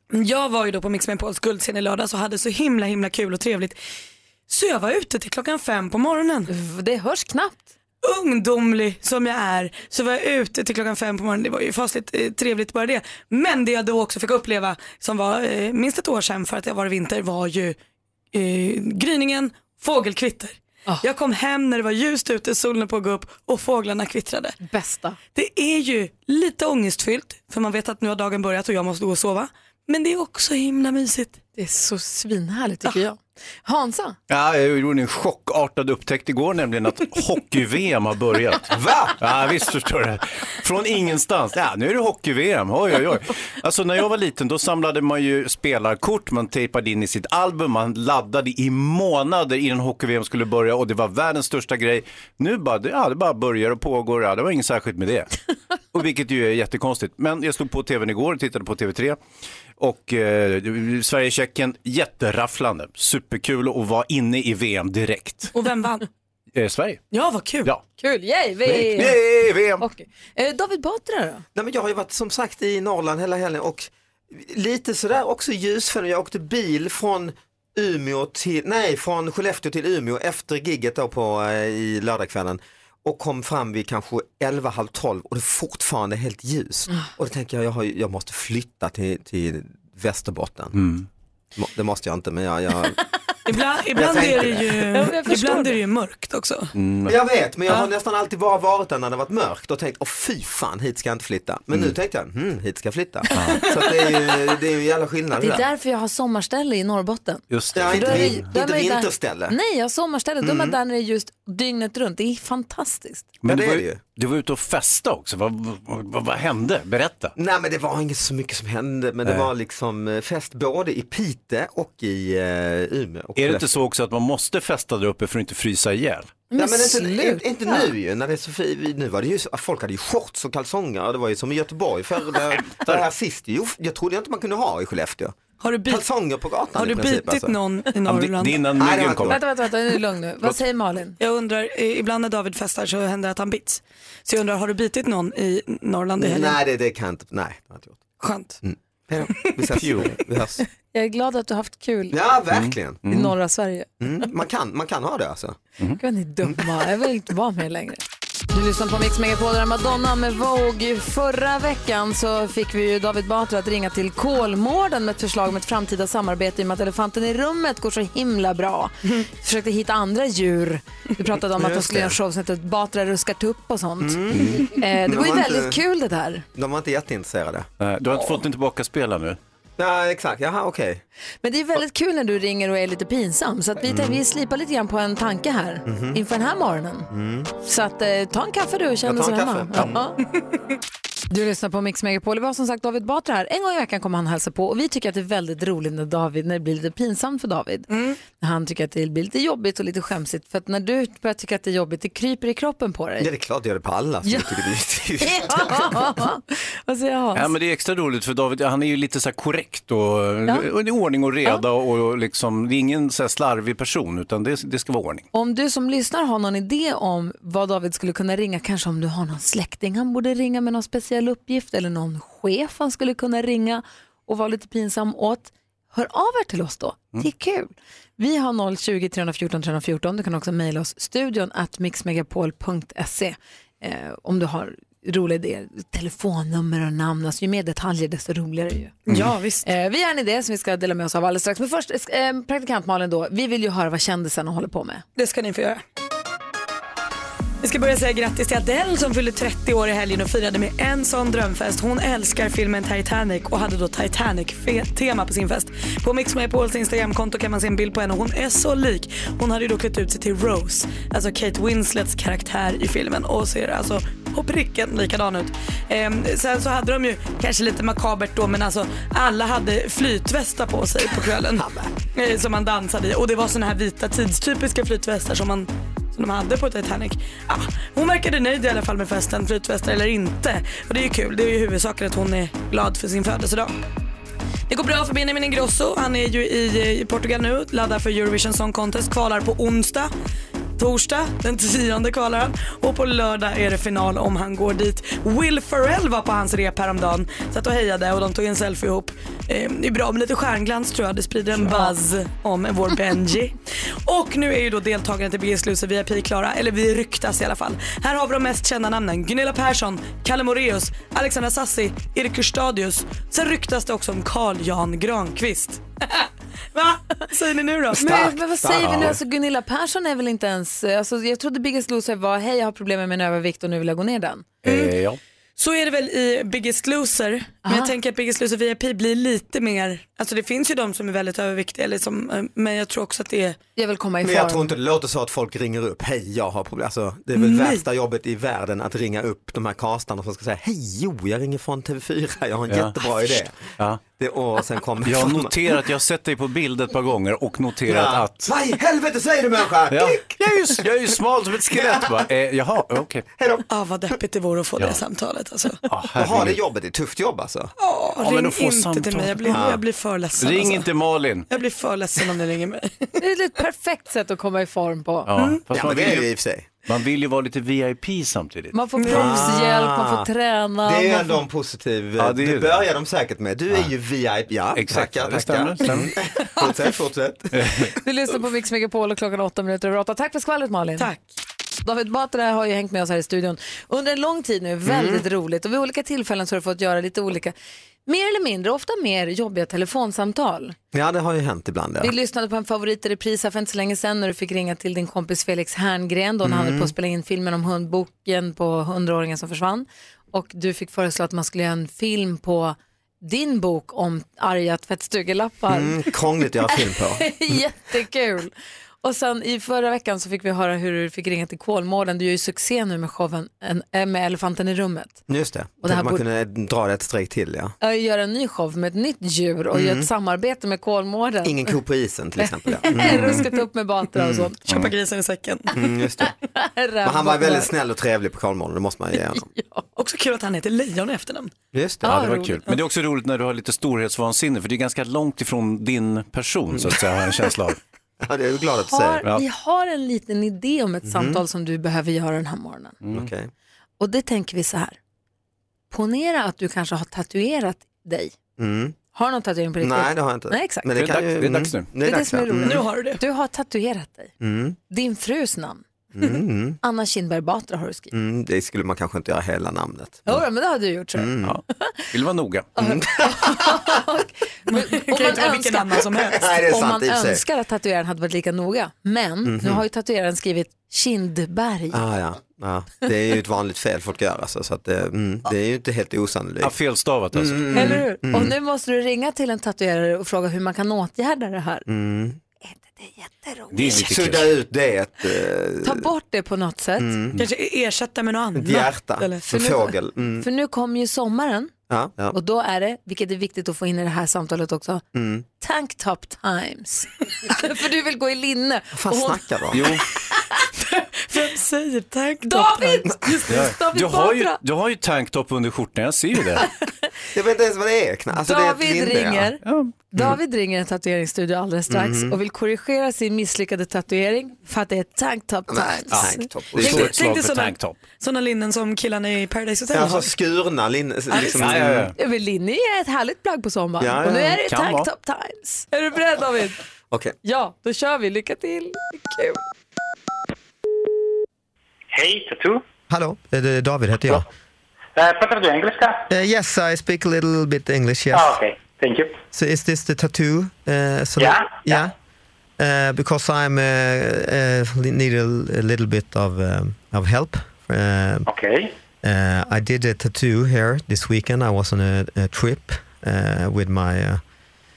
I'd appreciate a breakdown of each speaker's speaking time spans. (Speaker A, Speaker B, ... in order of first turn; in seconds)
Speaker A: 0.1-3.8, 4.5-6.5, 8.0-17.8, 18.3-24.6, 25.3-31.4, 65.5-66.1, 67.1-67.7, 93.5-96.7, 135.6-136.1, 136.7-138.7, 141.2-146.6, 148.2-148.6, 197.9-198.2, 239.1-239.7, 245.2-245.8, 247.6-283.8, 284.7-290.1, 290.8-318.4, 324.6-324.9, 325.6-333.6, 337.4-337.8, 353.7-355.8, 357.8-360.9, 361.5-363.1, 369.0-369.5, 381.0-381.3, 424.6-425.7, 430.0-431.5, 452.6-453.2, 464.7-466.5, 487.4-489.5, 501.3-503.1, 516.8-520.3, 521.3-521.7
Speaker B: 6.5-7.7, 24.6-25.2, 31.6-34.2, 68.0-69.2, 69.8-71.4, 94.9-95.8, 105.4-113.3, 126.5-127.9, 139.3-141.2, 150.9-152.2, 153.1-153.9, 156.0-158.0, 158.5-176.4, 181.4-187.1, 187.6-190.2, 191.3-203.3, 204.2-204.6, 205.2-207.5, 215.3-239.1, 239.6-245.0, 318.0-324.5, 327.6-327.9, 333.8-334.7, 363.2-365.3, 368.7-371.4, 378.0-381.1, 381.8-387.5, 388.1-390.8, 392.0-406.0, 407.2-408.5, 409.0-415.2, 415.8-416.2, 417.8-421.7, 422.7-424.6, 426.6-427.7, 429.3-429.9, 432.0-432.7, 438.9-443.0, 444.0-445.0, 445.9-448.4, 449.1-450.9, 452.0-454.3, 454.9-455.8, 456.8-458.1, 460.3-462.0, 462.8-466.0, 466.7-472.0, 477.7-481.9, 482.6-484.3, 485.8-487.1, 489.5-491.7, 492.3-495.0, 495.6-499.9, 502.4-504.6, 508.4-509.6, 510.1-516.5, 522.1-526.7, 527.4-529.6
Speaker C: 34.3-55.3, 55.9-59.2, 59.8-65.5, 66.5-67.0, 68.7-69.8, 90.8-91.1, 96.8-97.2, 103.3-103.6, 107.5-108.5, 113.4-117.3, 123.4-126.4, 138.1-139.4, 152.5-153.3, 174.3-174.7, 177.8-179.4, 207.3-215.3, 318.8-319.2, 324.6-325.2, 342.7-344.0, 345.0-348.5, 349.9-353.3, 355.9-356.6, 358.2-359.6, 360.4-361.5, 365.3-366.3, 366.9-368.8, 372.2-372.9, 374.7-376.1, 377.5-377.9, 432.1-437.8, 443.0-443.3, 450.9-451.9, 462.1-462.7, 476.6-477.9, 483.7-484.6, 499.7-500.0, 503.5-506.6, 509.6-509.9, 516.1-518.0, 521.5-522.1, 524.6-525.1
Speaker D: 38.7-39.2, 71.5-90.8, 91.6-93.0, 94.0-94.7, 97.1-105.6, 107.7-109.5, 110.4-110.8, 113.5-114.0, 117.4-123.7, 126.5-137.6, 138.7-139.4, 146.2-148.1, 148.6-150.6, 152.1-153.0, 154.0-155.6, 171.6-172.1, 174.0-175.8, 176.6-177.7, 179.8-181.0, 183.8-184.2, 185.9-186.2, 187.1-187.5, 189.1-190.0, 203.2-206.1, 271.6-271.9, 318.0-319.0, 334.2-345.6, 347.9-350.3, 351.7-352.2, 353.4-353.6, 356.1-357.7, 359.5-359.8, 365.7-366.7, 369.1-370.3, 370.8-377.6, 384.9-385.2, 390.9-392.1, 396.4-396.9, 405.7-407.6, 415.3-417.7, 419.7-420.1, 421.4-423.4, 424.1-424.5, 425.7-426.3, 427.0-429.5, 431.7-432.1, 436.7-437.0, 438.2-439.3, 441.1-441.4, 443.1-443.5, 448.6-449.0, 449.8-452.8, 454.4-454.8, 456.1-456.8, 458.1-460.4, 461.1-461.6, 462.8-463.7, 466.2-467.4, 469.4-469.8, 471.9-476.8, 477.3-478.5, 481.9-482.4, 483.9-486.1, 487.0-487.4, 488.6-490.5, 491.9-492.4, 495.1-495.4, 498.9-499.9, 507.3-509.5, 511.9-512.4, 515.7-517.1, 519.9-522.1, 524.0-524.6, 533.1-534.5, 536.3-538.6, 539.5-542.1, 542.8-548.5, 549.2-554.4
Speaker E: 532.1-532.8, 535.2-536.2, 538.3-539.4, 541.4-541.8, 548.5-548.9